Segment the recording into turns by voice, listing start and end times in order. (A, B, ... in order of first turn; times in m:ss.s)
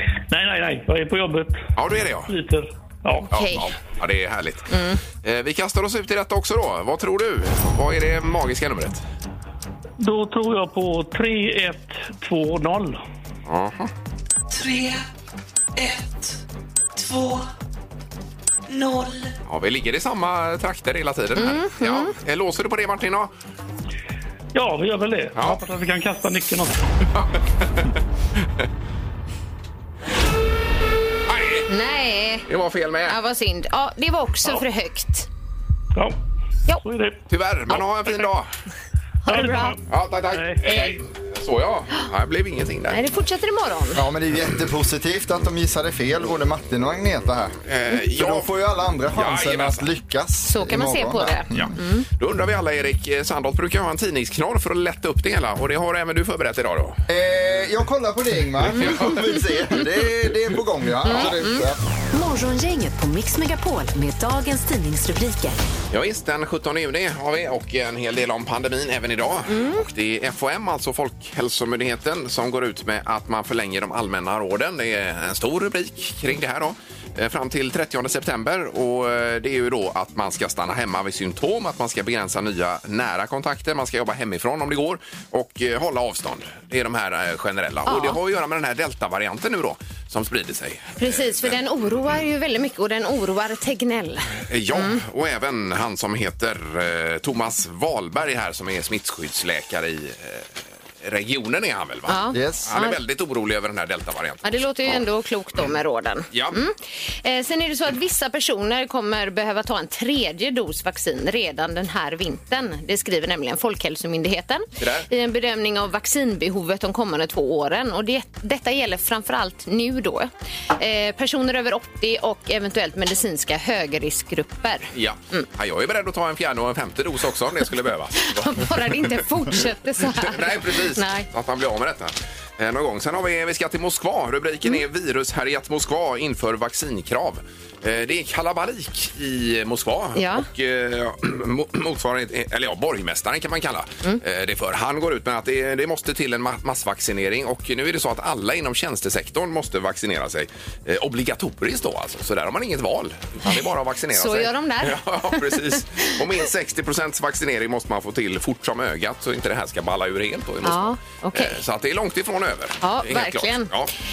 0:00.3-0:01.6 A
0:01.8-0:02.3 B
0:02.3-0:03.3 A
0:03.3-0:03.7 C
0:03.3-0:09.0 B
0:04.7-0:05.0 C
0:10.0-0:13.0 A
0:13.5-0:13.9 B
0:14.5-0:15.0 D
0:15.8-0:16.4 D
0:17.0-0:17.5 D
0:18.7-0:19.3 D
0:19.5-0:23.3 B
0:21.4-0:22.2 C
0:24.5-0:26.8 A
0:25.4-0:25.6 B
0:31.3-0:31.7 B
0:31.7-0:32.5 C
0:32.5-0:33.2 B
0:33.1-0:35.3 C
0:36.8-0:37.2 A
0:37.3-0:38.5 B
0:39.2-0:39.8 C
0:39.3-0:39.8 A
0:39.9-0:43.0 B
0:40.3-0:41.0 A
0:42.9-0:44.0 C
0:44.0-0:51.7 E
0:47.6-0:48.5 B
0:49.1-0:49.9 B
0:50.4-0:52.0 C
0:51.5-0:57.0 B
0:57.1-1:01.8 E
0:58.8-0:59.2 B
0:58.9-0:59.2 C
1:01.1-1:01.6 C
1:02.1-1:05.6 F
1:05.9-1:31.6 B
1:09.5-1:09.8 C
1:27.9-1:28.2 C
1:31.0-1:35.0 C
1:34.5-1:40.5 B
1:41.0-1:45.0 B
1:42.1-1:43.0 C
1:42.3-1:42.7 E
1:44.4-2:05.5 C
1:46.3-1:46.6 B
1:54.8-1:55.1 B
2:04.9-2:08.7 B
2:08.2-2:11.3 C
2:10.2-2:43.9 B
2:20.2-2:20.5 C
2:33.5-2:36.2 C
2:40.6-2:41.6 C
2:42.8-2:43.7 C